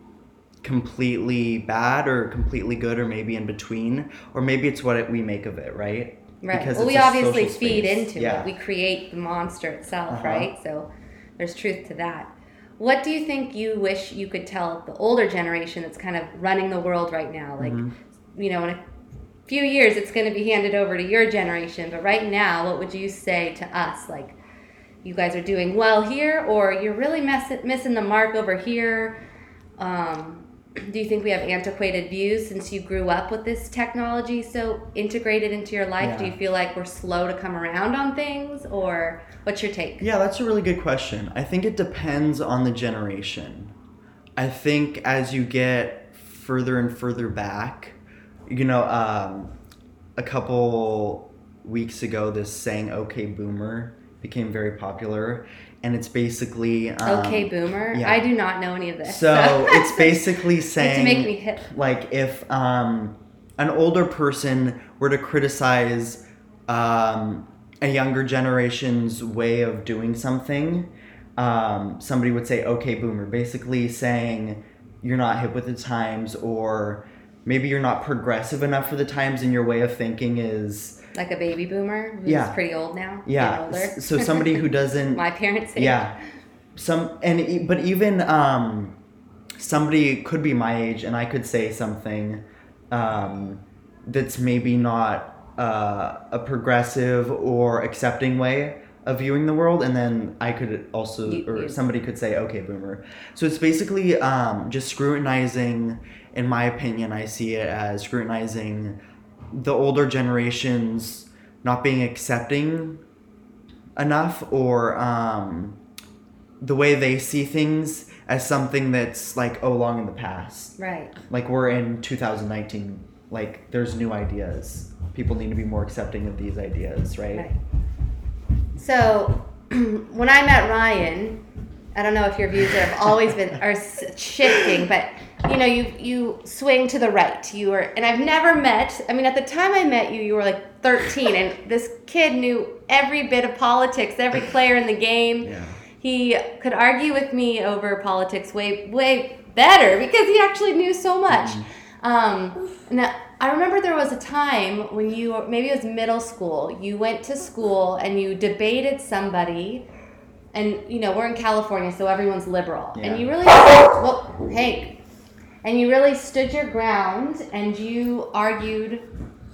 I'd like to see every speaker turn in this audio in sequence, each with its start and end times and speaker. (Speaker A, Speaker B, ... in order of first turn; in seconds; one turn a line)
Speaker A: 0.6-8.5
Speaker B: 6.4-18.8
Speaker A: 10.1-10.5
Speaker A: 17.6-17.9
Speaker B: 19.5-24.4
Speaker B: 25.0-29.2
Speaker B: 29.8-40.0
Speaker A: 36.0-36.3
Speaker A: 40.0-43.7
Speaker A: 44.4-49.5
Speaker A: 50.2-58.2
Speaker B: 57.0-61.7
Speaker A: 59.0-81.0
Speaker B: 81.1-84.6
Speaker A: 82.2-82.6
Speaker A: 83.2-85.2
Speaker B: 85.1-86.1
Speaker A: 85.8-86.2
Speaker A: 86.7-89.0
Speaker A: 89.6-109.0
Speaker B: 101.2-101.8
Speaker A: 109.5-113.0
Speaker A: 114.0-115.8
Speaker A: 116.6-120.8
Speaker B: 120.8-121.1
Speaker A: 121.3-127.5
Speaker B: 127.3-127.6
Speaker B: 128.8-131.4
Speaker B: 131.9-159.8
Speaker A: 145.4-145.8
Speaker A: 151.3-151.7
Speaker B: 160.5-165.0
Speaker A: 162.9-163.3
Speaker B: 165.6-169.0